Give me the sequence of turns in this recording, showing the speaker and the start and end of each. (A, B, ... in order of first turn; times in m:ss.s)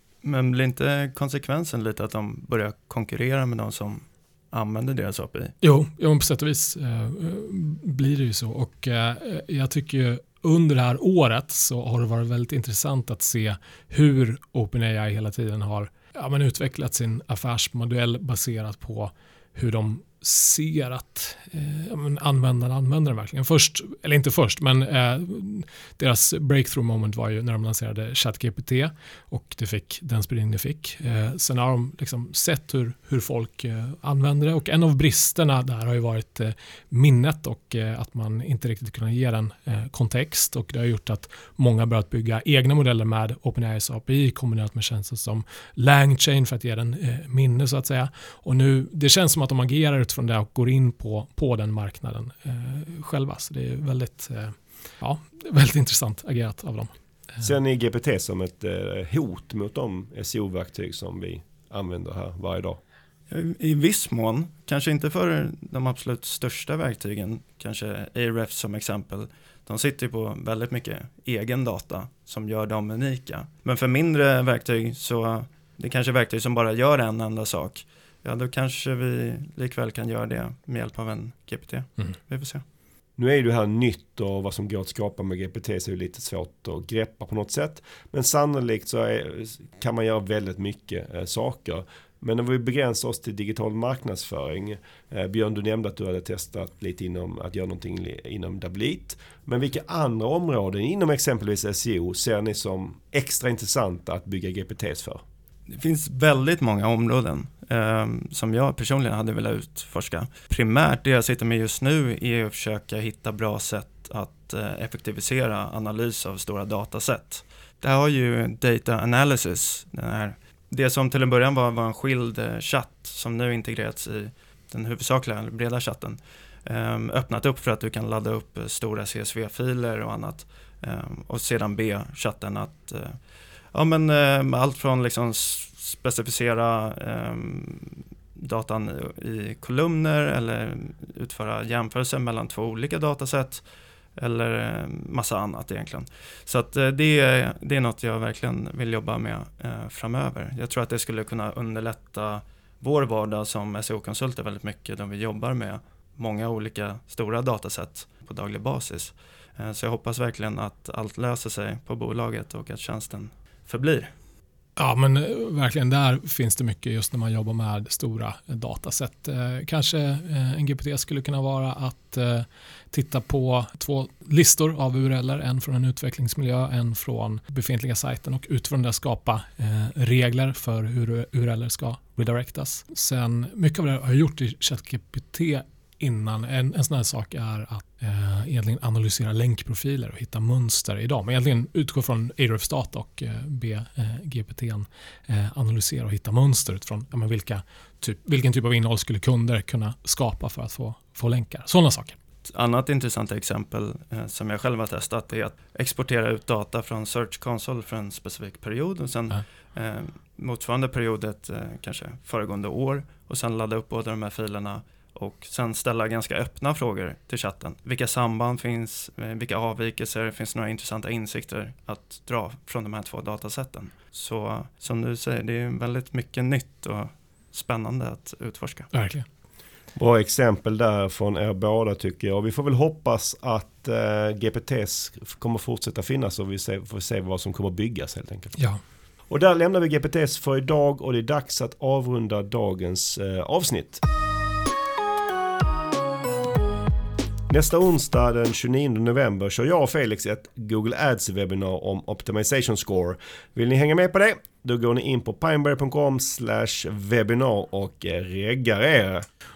0:00.2-0:05.5 A
0:05.6-0:56.9 B
0:57.4-1:02.8 C
1:03.3-1:22.6 A
1:23.2-1:45.2 C
1:45.7-2:13.2 A
2:13.7-2:23.6 A
2:24.2-2:44.1 A
2:44.8-3:22.2 B
3:22.4-3:48.9 A
3:48.9-3:49.2 B
3:50.0-3:58.6 C
3:59.3-4:04.0 C
4:07.5-4:19.3 C